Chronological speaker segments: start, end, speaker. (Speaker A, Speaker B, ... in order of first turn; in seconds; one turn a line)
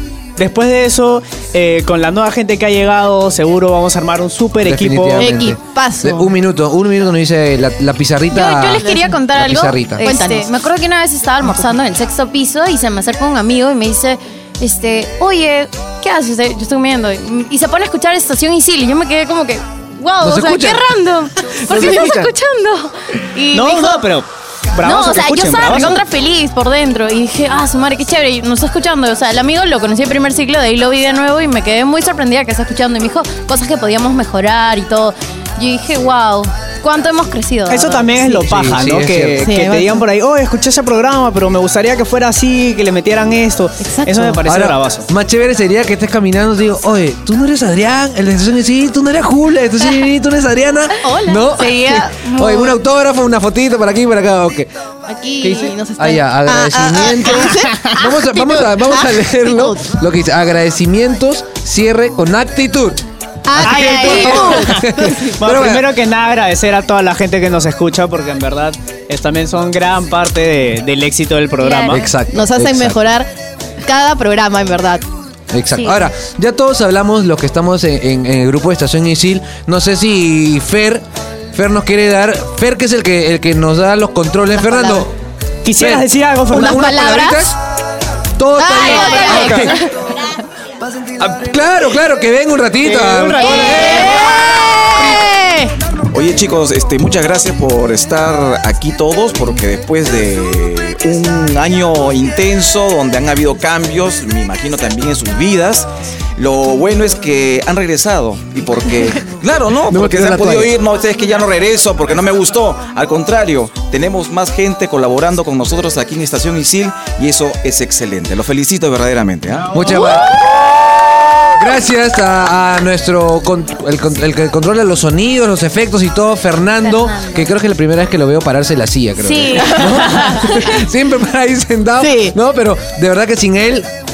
Speaker A: 0.4-5.3
Speaker B: 4.6-10.1
Speaker C: 5.2-6.3
Speaker D: 8.3-24.1
Speaker C: 8.9-9.1
Speaker C: 10.0-10.5
Speaker C: 11.4-11.7
Speaker B: 20.2-20.9
Speaker B: 21.7-22.3
Speaker A: 23.5-26.0
Speaker D: 24.8-38.1
Speaker A: 37.7-45.1
Speaker B: 38.4-39.5
Speaker C: 39.4-40.0
Speaker C: 43.8-44.4
Speaker B: 44.5-54.7
Speaker C: 51.0-52.6
Speaker D: 52.1-52.8
Speaker C: 55.1-59.9
Speaker B: 55.4-63.0
Speaker C: 63.5-65.4
Speaker B: 63.5-65.9
Speaker A: 63.6-64.9
Speaker D: 64.2-64.5
Speaker A: 65.4-72.0
Speaker D: 71.6-72.0
Speaker B: 71.9-73.0
Speaker C: 72.3-73.3
Speaker C: 73.8-75.1
Speaker B: 75.5-81.0
Speaker B: 81.5-85.1
Speaker C: 84.5-85.1
Speaker A: 85.6-87.3
Speaker B: 85.8-87.5
Speaker C: 86.8-87.4
Speaker B: 88.4-89.9
Speaker C: 88.6-90.2
Speaker D: 88.9-89.7
Speaker B: 91.2-94.4
Speaker A: 92.8-94.0
Speaker C: 93.4-95.7
Speaker D: 93.5-94.2
Speaker E: 96.1-119.8
Speaker B: 119.7-120.4
Speaker B: 121.6-133.9
Speaker D: 126.8-127.5
Speaker D: 129.2-130.5
Speaker C: 132.0-132.4